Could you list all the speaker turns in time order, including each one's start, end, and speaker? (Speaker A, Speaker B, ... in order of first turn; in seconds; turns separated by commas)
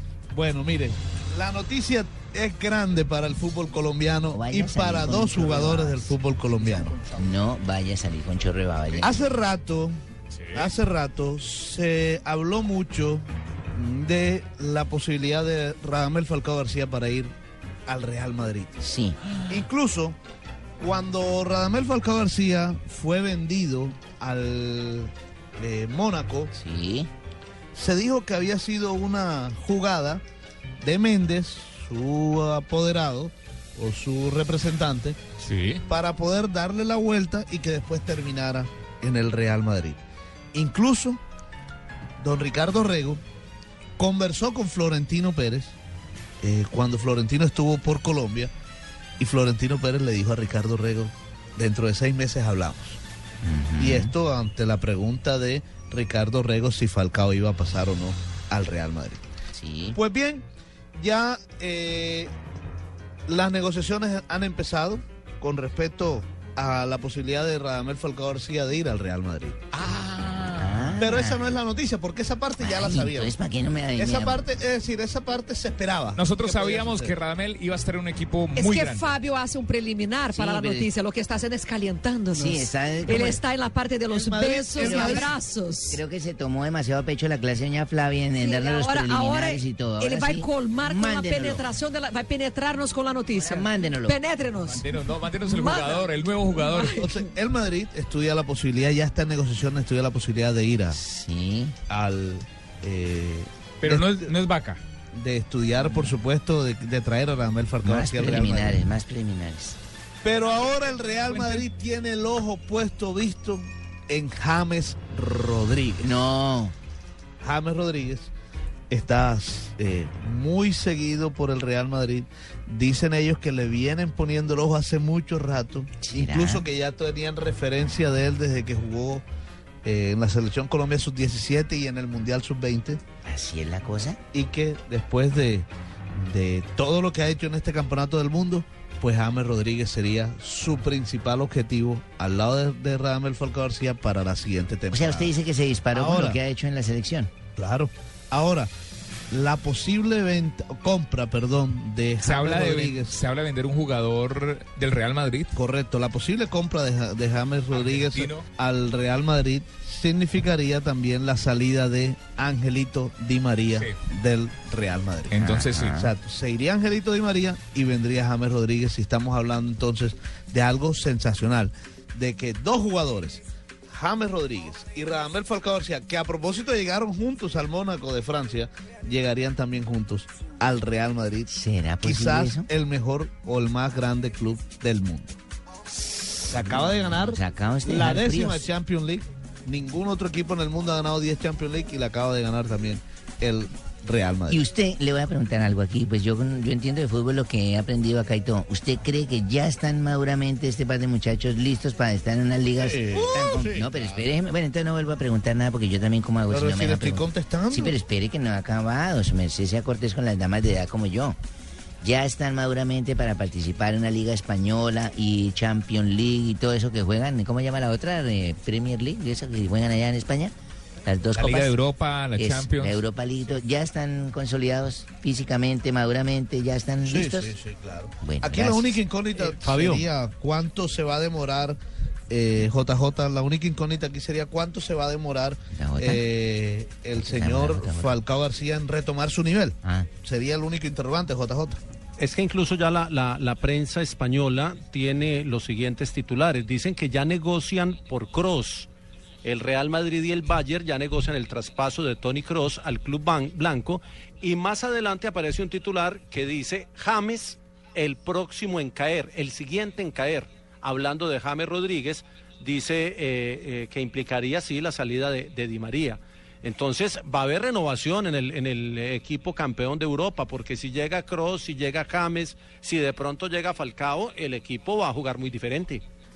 Speaker A: 0.3-7.0, Speaker B: 4.3-6.2, Speaker B: 7.1-9.2, Speaker A: 9.0-9.9, Speaker C: 10.3-10.6, Speaker A: 10.5-13.2, Speaker A: 13.7-17.3, Speaker A: 17.9-18.9, Speaker B: 18.8-19.2, Speaker A: 19.5-20.2, Speaker A: 20.8-26.5, Speaker B: 26.5-27.1, Speaker A: 27.7-30.2, Speaker A: 30.8-35.2, Speaker C: 35.4-35.8, Speaker A: 35.9-40.0, Speaker A: 40.5-41.2, Speaker A: 42.2-43.2, Speaker A: 44.0-45.8, Speaker A: 46.4-48.5, Speaker A: 49.2-53.0, Speaker B: 53.4-54.1, Speaker A: 53.8-59.2, Speaker B: 59.5-60.0, Speaker A: 59.9-60.4, Speaker A: 61.0-62.3, Speaker A: 63.3-69.6, Speaker C: 69.8-71.0, Speaker B: 70.5-71.5, Speaker A: 71.0-73.3, Speaker B: 72.6-74.4, Speaker A: 74.0-77.2, Speaker C: 76.2-79.0, Speaker D: 78.5-86.0, Speaker B: 80.3-80.9, Speaker B: 82.3-83.4, Speaker A: 84.1-85.3, Speaker B: 84.7-85.3, Speaker B: 85.9-91.7, Speaker D: 88.4-94.8, Speaker B: 93.3-94.2, Speaker C: 94.6-97.0, Speaker D: 95.4-96.1, Speaker D: 96.6-97.1, Speaker A: 96.9-101.0, Speaker B: 100.9-101.7, Speaker A: 101.9-104.3, Speaker C: 103.8-104.8, Speaker A: 105.1-108.8, Speaker B: 107.8-109.8, Speaker A: 110.2-116.2, Speaker C: 111.3-111.6, Speaker B: 116.0-116.7, Speaker A: 117.4-118.3, Speaker A: 118.9-129.2, Speaker B: 126.0-126.6, Speaker A: 129.8-133.0, Speaker B: 133.2-134.2, Speaker A: 134.3-145.3, Speaker B: 144.9-147.3, Speaker A: 145.9-146.4, Speaker A: 147.6-148.7, Speaker A: 149.3-153.2, Speaker C: 152.2-155.5, Speaker A: 155.5-165.3, Speaker C: 157.7-158.4, Speaker C: 165.3-166.0, Speaker B: 165.4-166.1, Speaker A: 166.0-185.4, Speaker B: 181.5-182.7, Speaker A: 186.5-194.6, Speaker B: 187.1-188.7, Speaker B: 194.5-211.4, Speaker A: 202.8-204.2, Speaker A: 206.5-208.0, Speaker B: 212.0-221.7, Speaker C: 221.4-223.0, Speaker B: 222.4-227.5, Speaker A: 227.0-231.8, Speaker B: 228.2-229.0, Speaker E: 229.4-230.1, Speaker A: 232.3-241.8, Speaker B: 235.8-236.2, Speaker B: 237.1-238.1, Speaker B: 239.8-240.1, Speaker E: 242.2-248.9, Speaker E: 249.4-276.0